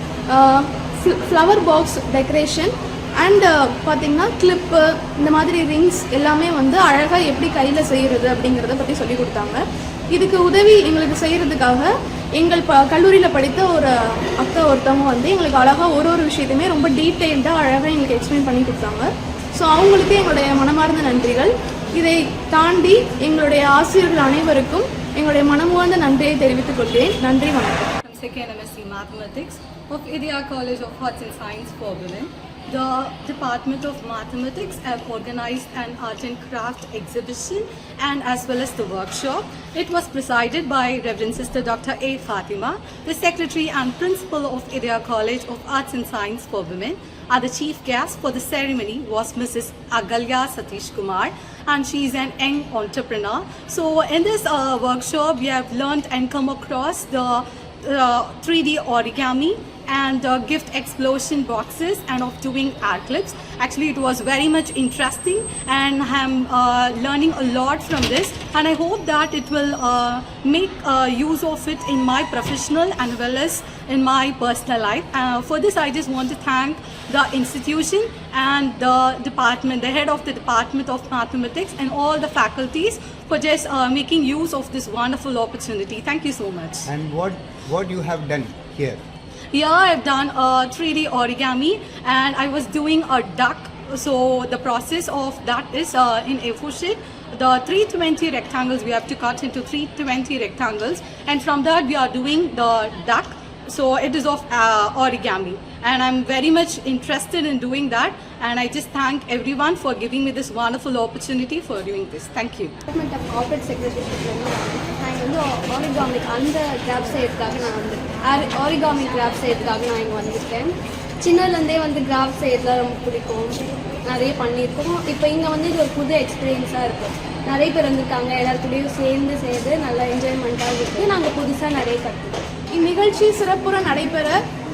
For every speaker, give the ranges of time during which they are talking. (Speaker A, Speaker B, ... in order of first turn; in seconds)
Speaker A: 0.3-27.9, 132.7-134.3
Speaker B: 28.0-86.9, 89.5-112.8
Speaker C: 86.9-89.0
Speaker D: 112.9-132.4